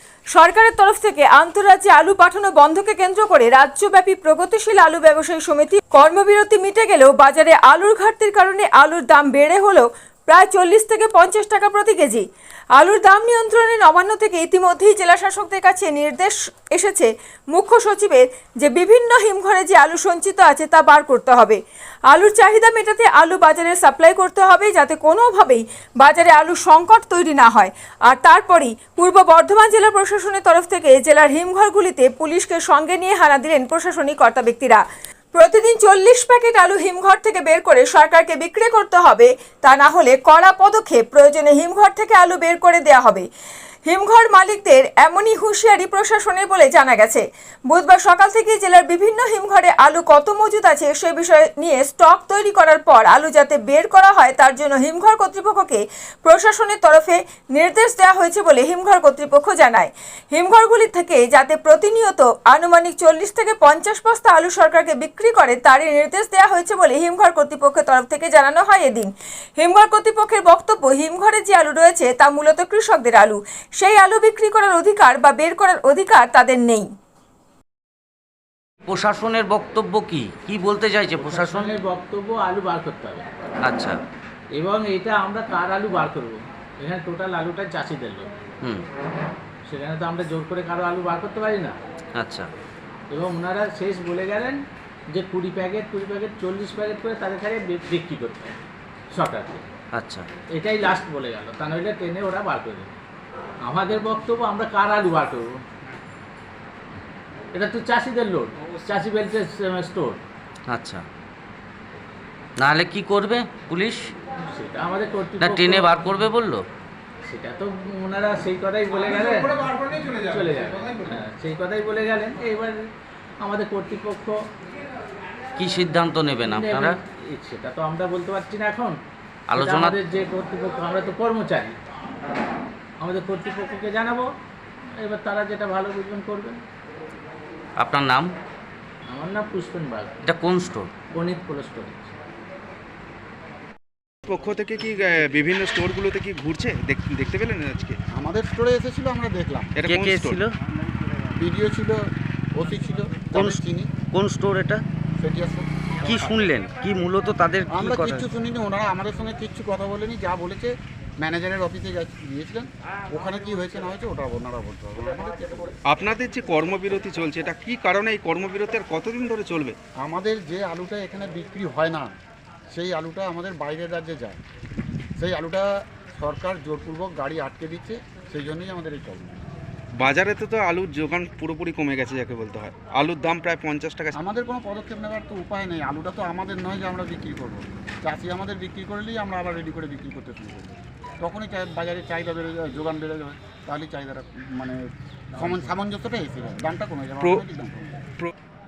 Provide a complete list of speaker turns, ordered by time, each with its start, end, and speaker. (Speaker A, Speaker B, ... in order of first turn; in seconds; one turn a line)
Speaker A: 0.3-34.8
Speaker A: 35.3-43.3
Speaker A: 43.9-76.9
Speaker B: 78.9-81.7
Speaker C: 81.2-83.2
Speaker B: 83.7-84.0
Speaker C: 84.5-88.3
Speaker C: 89.7-91.8
Speaker B: 92.2-92.5
Speaker C: 93.1-98.6
Speaker C: 99.1-99.7
Speaker B: 99.9-100.3
Speaker C: 100.5-102.9
Speaker C: 103.6-105.5
Speaker C: 107.5-110.2
Speaker B: 110.7-111.0
Speaker B: 112.6-114.1
Speaker C: 114.4-116.3
Speaker B: 115.4-116.7
Speaker C: 117.3-122.8
Speaker C: 123.4-124.4
Speaker B: 125.6-127.0
Speaker C: 126.4-129.0
Speaker B: 129.5-130.0
Speaker C: 129.5-131.8
Speaker C: 133.0-134.3
Speaker C: 135.0-136.6
Speaker B: 137.8-138.3
Speaker C: 139.1-140.1
Speaker B: 140.2-140.9
Speaker C: 141.1-142.1
Speaker D: 144.3-148.0
Speaker E: 148.1-149.8
Speaker D: 149.8-150.4
Speaker B: 149.9-150.5
Speaker E: 151.4-152.0
Speaker E: 152.6-153.9
Speaker B: 153.3-154.8
Speaker E: 155.2-155.7
Speaker B: 156.0-158.3
Speaker E: 157.7-165.8
Speaker D: 165.9-169.8
Speaker E: 170.0-172.1
Speaker E: 172.7-174.4
Speaker E: 175.2-179.4
Speaker D: 180.0-184.2
Speaker E: 184.1-194.8
Speaker E: 195.3-198.1